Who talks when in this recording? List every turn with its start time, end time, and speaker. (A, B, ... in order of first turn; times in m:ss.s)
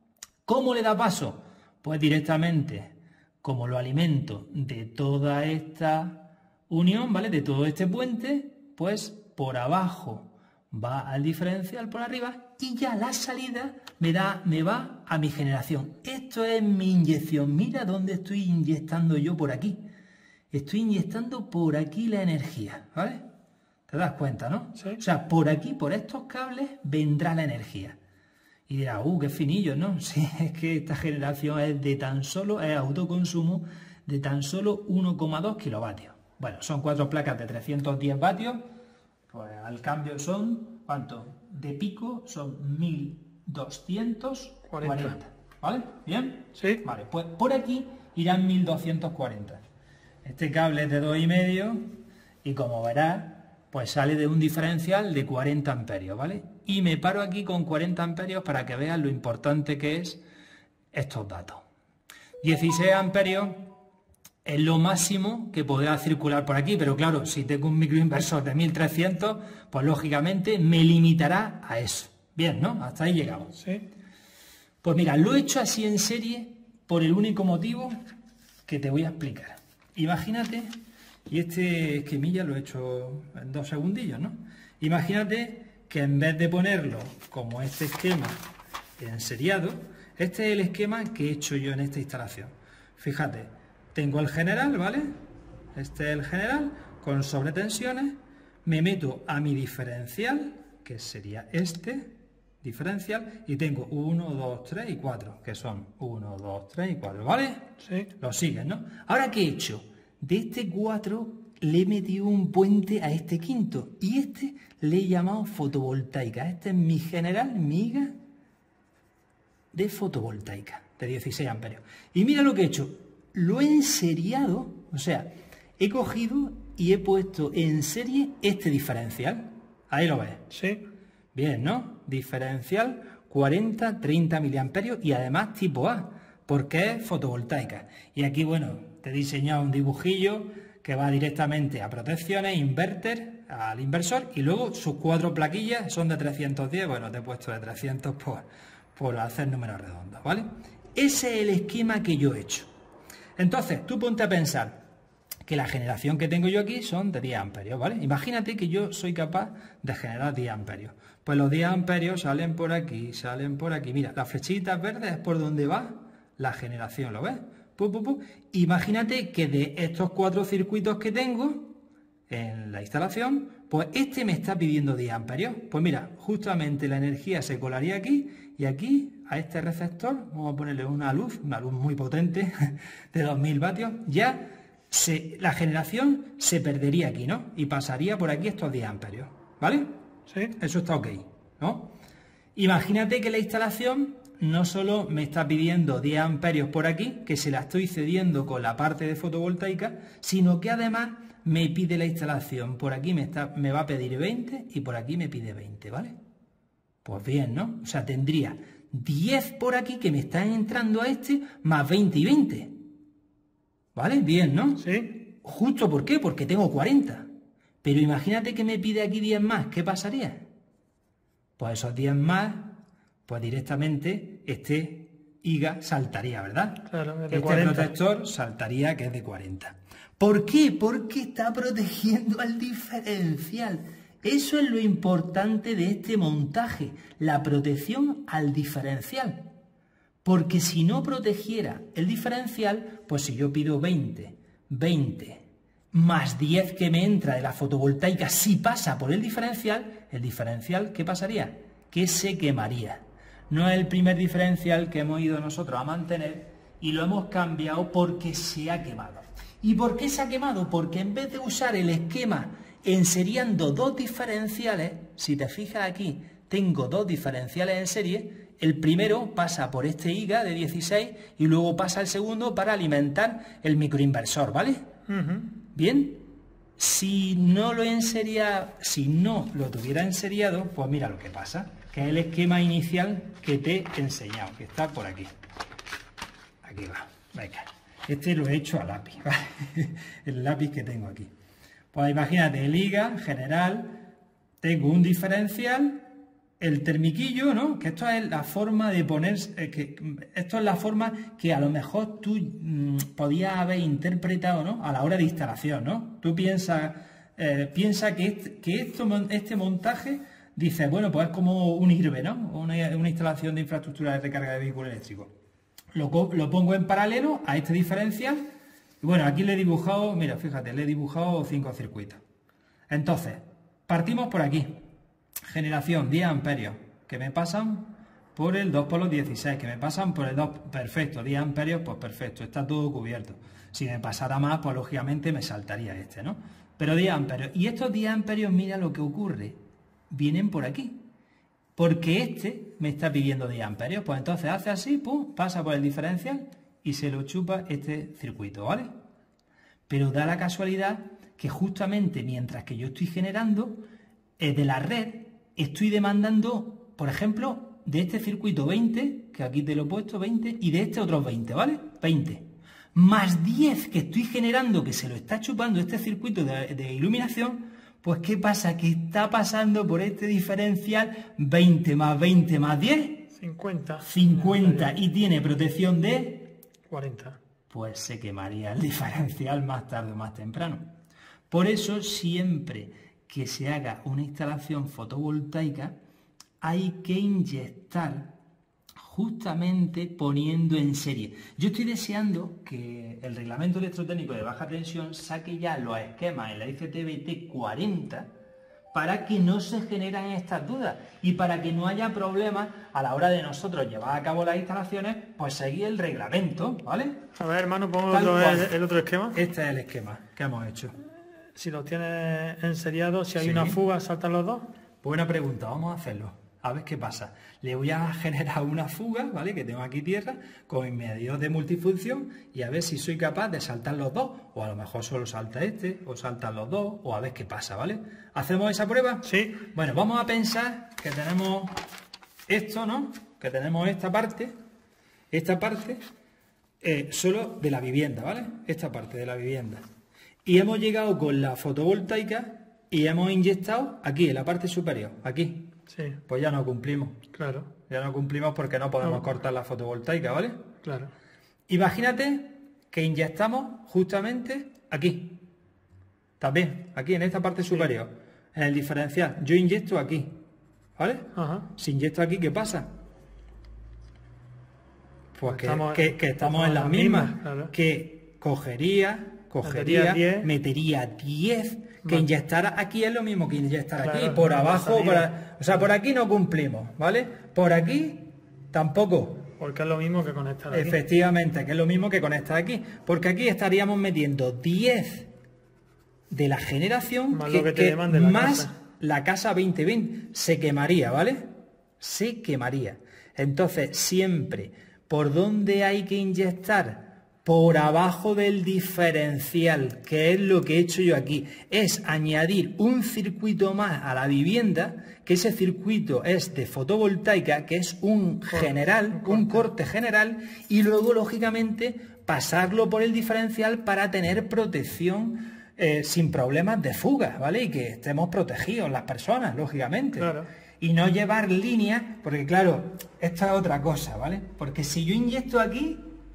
0:00.4-0:19.8 A
0:20.5-0:23.2 A
0:23.9-0:28.0 A
0:28.7-0:38.6 A
0:39.3-0:49.6 A
0:44.7-0:45.1 B
0:46.6-0:46.8 B
0:50.2-0:51.8 A
0:52.4-1:00.2 A
1:00.9-1:01.6 A
1:02.4-1:03.7 A
1:04.4-1:13.6 A
1:13.6-1:13.8 B
1:14.8-1:17.9 A
1:18.6-1:20.7 A
1:21.3-1:28.4 A
1:29.0-1:35.1 A
1:35.7-1:58.1 A
1:47.8-1:48.1 B
1:59.7-2:10.4 A
2:10.5-2:10.8 B
2:11.3-2:32.7 A
2:33.4-2:34.8 A
2:35.4-2:51.7 A
2:52.3-3:09.9 A
3:10.3-3:10.5 B
3:10.6-3:11.9 A
3:12.6-3:26.2 A
3:27.0-3:32.7 A
3:33.9-3:37.3 A
3:34.8-3:35.1 B
3:37.8-3:40.4 A
3:41.6-3:42.7 A
3:43.3-3:59.5 A
3:46.9-3:47.9 B
4:00.2-4:34.8 A
4:35.1-4:35.5 B
4:35.7-4:36.2 A
4:36.8-4:45.3 A
4:46.6-4:51.3 A
4:51.9-4:54.0 A
4:54.6-4:56.0 A
4:56.6-5:15.3 A
5:15.9-5:18.4 A
5:19.0-5:22.2 A
5:22.9-5:24.8 A
5:25.5-5:39.6 A
5:40.1-5:41.0 A
5:41.8-5:48.9 A
5:49.9-5:53.8 A
5:54.4-6:13.3 A
6:13.3-6:14.9 B
6:14.0-6:16.5 A
6:16.9-6:17.4 B
6:17.7-6:20.8 A
6:21.5-6:26.0 A
6:26.6-6:28.3 A
6:29.0-6:38.3 A
6:38.9-6:47.2 A
6:47.4-6:49.4 B
6:48.1-6:48.7 A
6:49.3-6:51.0 A
6:51.5-6:54.7 B
6:53.4-6:53.8 A
6:55.0-7:11.7 A
7:09.2-7:09.6 B
7:12.5-7:14.5 A
7:15.3-7:16.0 A
7:16.8-7:19.8 A
7:20.4-7:25.7 A
7:25.9-7:26.2 B
7:26.3-7:27.2 A
7:27.3-7:27.7 B
7:27.9-7:30.6 A
7:30.8-7:31.1 B
7:31.7-7:35.4 A
7:36.4-7:40.4 A
7:41.0-7:42.9 A
7:41.3-7:41.7 B
7:45.3-7:59.5 A
7:45.4-7:47.7 B
7:49.6-7:50.5 B
7:54.0-7:55.8 B
7:59.6-8:01.0 B
8:00.7-8:05.3 A
8:06.3-8:11.5 A
8:07.3-8:08.7 B
8:12.0-8:46.1 A
8:28.5-8:29.7 B
8:40.2-8:40.5 B